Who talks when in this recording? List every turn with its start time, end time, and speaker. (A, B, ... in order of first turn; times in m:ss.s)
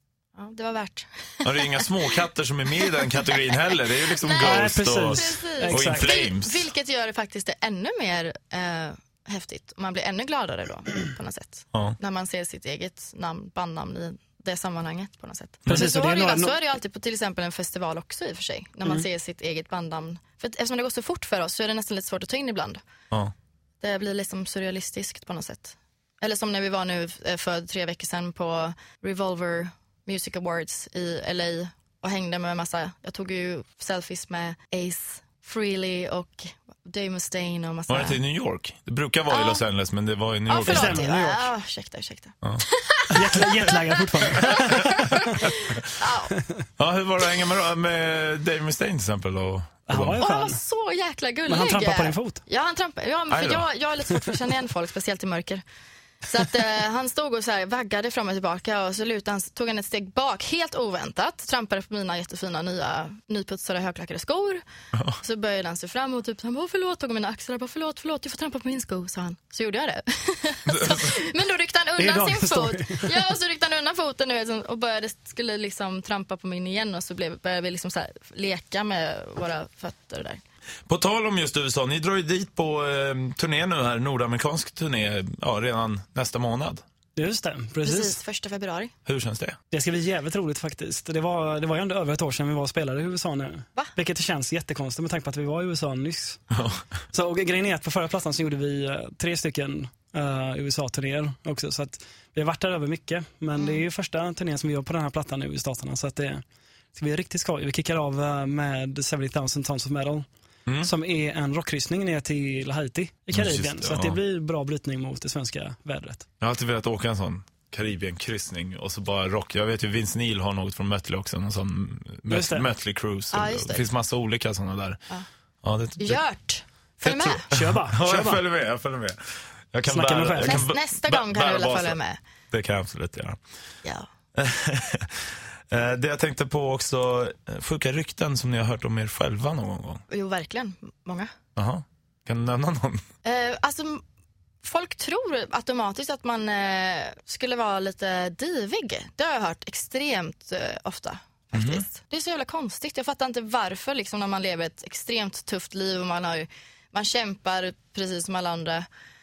0:00.3-0:01.7 A
0:01.4-0:06.6 B
0:04.1-0:22.8 A
0:04.4-0:06.2 C
0:15.7-0:16.6 C
0:23.8-0:38.2 A
0:37.9-0:41.0 B
0:39.3-0:39.6 A
0:40.5-0:43.9 A
0:40.5-0:41.5 C
0:43.1-0:45.4 C
0:45.6-0:46.3 A
0:46.3-0:46.6 C
0:46.8-0:50.2 B
0:49.9-0:50.6 C
0:50.2-0:55.6 A
0:51.4-0:52.4 C
0:53.3-0:53.6 B
0:56.2-1:04.6 A
1:05.2-1:20.4 A
1:10.7-1:11.1 B
1:12.0-1:13.2 C
1:20.9-1:26.8 B
1:27.2-1:28.2 C
1:27.8-1:28.9 A
1:29.0-1:29.6 B
1:29.7-1:36.5 C
1:36.5-1:36.8 B
1:37.1-1:46.4 C
1:46.9-1:50.3 C
1:50.8-1:56.2 C
1:53.3-1:54.2 B
1:56.4-2:05.0 B
2:02.3-2:02.7 C
2:03.3-2:03.9 A
2:05.6-2:06.2 B
2:06.0-2:07.4 A
2:07.0-2:12.0 B
2:07.1-2:08.4 C
2:09.9-2:10.7 C
2:10.4-2:12.2 A
2:12.5-2:13.4 B
2:14.3-2:20.0 B
2:20.1-2:21.3 A
2:21.6-2:23.0 B
2:23.2-2:24.0 A
2:24.6-2:38.8 A
2:31.5-2:31.8 B